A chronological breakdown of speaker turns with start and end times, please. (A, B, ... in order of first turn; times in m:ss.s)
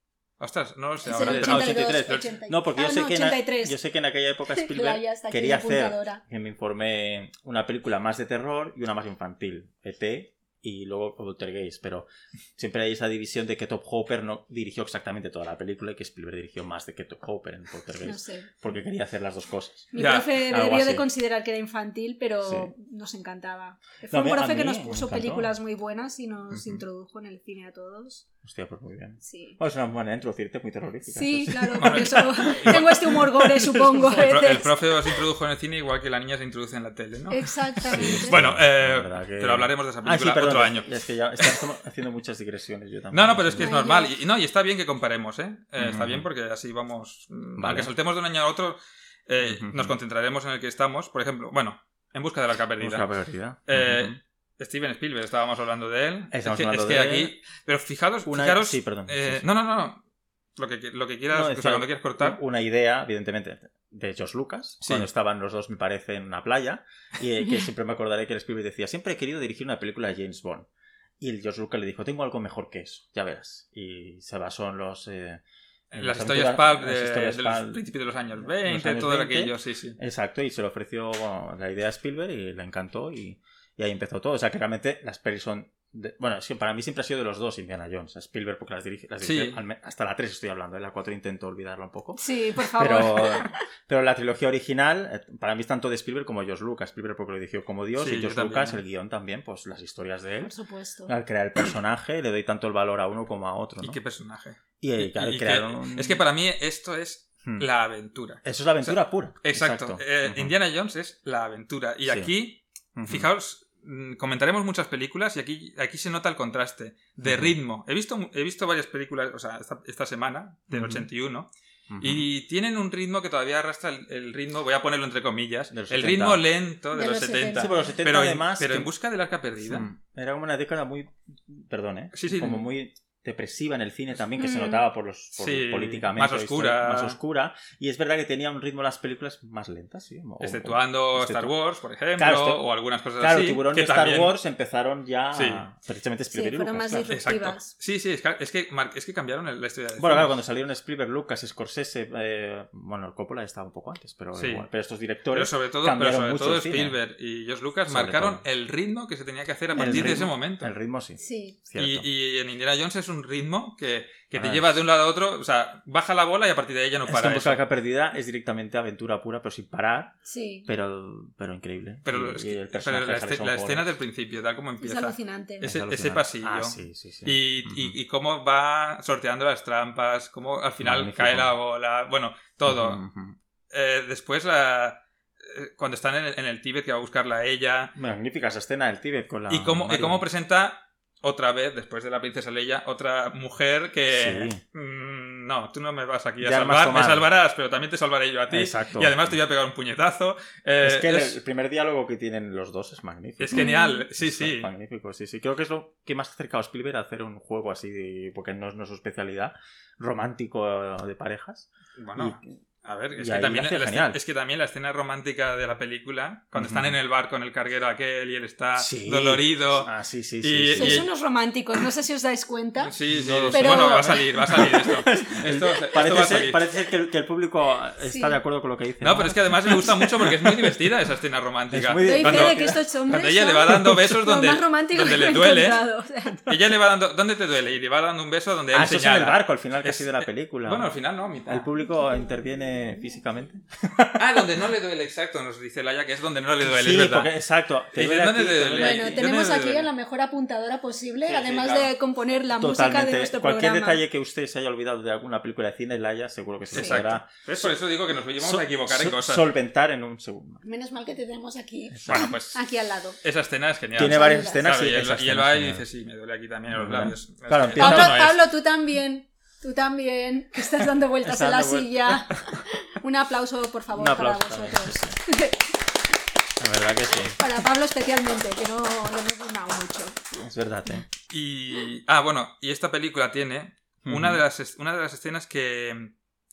0:00.4-0:02.3 A
0:01.0-0:03.8 B
0:01.2-0:21.0 C
0:04.5-0:06.2 B
0:18.0-0:18.5 B
0:19.9-0:28.2 B
0:20.0-0:20.3 A
0:22.4-0:22.7 C
0:24.1-0:25.5 C
0:26.5-0:26.8 C
0:28.4-0:34.6 C
0:29.2-0:29.6 B
0:31.1-0:34.8 B
0:31.8-0:33.2 A
0:34.1-0:41.6 A
0:37.3-0:38.4 B
0:37.8-0:43.7 C
0:43.1-0:53.1 A
0:43.6-0:44.2 B
0:45.8-0:46.3 C
0:47.6-0:47.9 C
0:49.4-0:49.9 C
0:52.8-0:54.2 C
0:53.7-1:00.0 A
0:56.3-0:57.3 C
0:58.2-0:59.4 C
1:00.6-1:02.4 A
1:01.3-1:10.7 C
1:04.8-1:05.1 A
1:11.2-1:17.8 C
1:15.9-1:20.0 A
1:18.4-1:40.5 C
1:29.2-1:29.6 A
1:32.2-1:33.6 B
1:38.0-1:38.8 A
1:40.4-1:41.1 B
1:41.0-1:44.0 C
1:43.8-2:09.9 A
1:44.8-1:46.2 C
1:48.4-1:50.5 C
1:53.0-1:53.3 C
1:57.2-1:57.5 C
2:00.7-2:01.1 C
2:01.9-2:02.3 C
2:05.7-2:06.4 C
2:06.9-2:07.9 B
2:07.5-2:08.9 C
2:09.6-2:21.5 C
2:12.1-2:12.6 A
2:14.4-2:14.8 B
2:15.4-2:17.2 A
2:20.4-2:24.4 A
2:22.2-2:22.6 C
2:23.2-2:27.3 C
2:25.3-2:25.6 A
2:26.3-2:27.7 B
2:27.1-2:30.3 A
2:30.0-2:37.0 C
2:34.3-2:34.6 A
2:35.3-2:40.7 A
2:37.9-2:38.4 C
2:39.7-2:40.2 B
2:39.8-2:42.1 C
2:41.2-2:41.6 B
2:41.8-2:47.6 A
2:44.3-2:44.8 C
2:47.1-2:50.1 C
2:50.2-2:50.7 B
2:50.6-2:53.9 C
2:52.0-3:03.0 A
2:54.8-2:55.7 B
2:55.6-2:58.0 C
3:00.8-3:01.5 C
3:02.6-3:03.4 C
3:03.7-3:07.9 A
3:08.0-3:10.2 C
3:09.5-3:21.4 A
3:14.1-3:14.6 C
3:16.4-3:17.3 C
3:18.5-3:19.4 C
3:20.8-3:32.4 C
3:23.4-3:24.7 A
3:23.5-3:24.1 B
3:32.0-3:39.9 A
3:33.2-3:34.2 C
3:36.6-3:37.0 C
3:38.8-3:41.1 C
3:40.4-3:41.1 A
3:40.7-3:42.9 B
3:42.8-3:46.6 A
3:43.1-3:50.8 C
3:43.5-3:44.2 B
3:48.0-3:48.4 B
3:49.0-3:55.8 A
3:51.7-3:52.8 C
3:52.0-3:56.5 B
3:56.4-4:01.7 A
3:58.7-4:00.9 C
4:01.5-4:04.4 C
4:04.2-4:07.3 A
4:06.6-4:09.3 C
4:07.9-4:09.9 A
4:08.8-4:14.0 B
4:11.3-4:11.9 A
4:12.6-4:17.7 C
4:16.7-4:19.4 A
4:16.7-4:17.0 B
4:18.4-4:20.6 C
4:20.6-4:23.2 B
4:21.9-4:22.3 C
4:22.0-4:22.6 A
4:23.2-4:28.4 A
4:23.9-4:25.8 C
4:24.0-4:24.6 B
4:26.7-4:28.3 C
4:27.8-4:35.7 B
4:31.2-4:32.6 C
4:33.9-4:35.2 C
4:36.6-4:37.4 C
4:37.3-4:40.2 B
4:40.4-4:41.0 C
4:41.3-4:46.1 A
4:44.0-4:44.4 C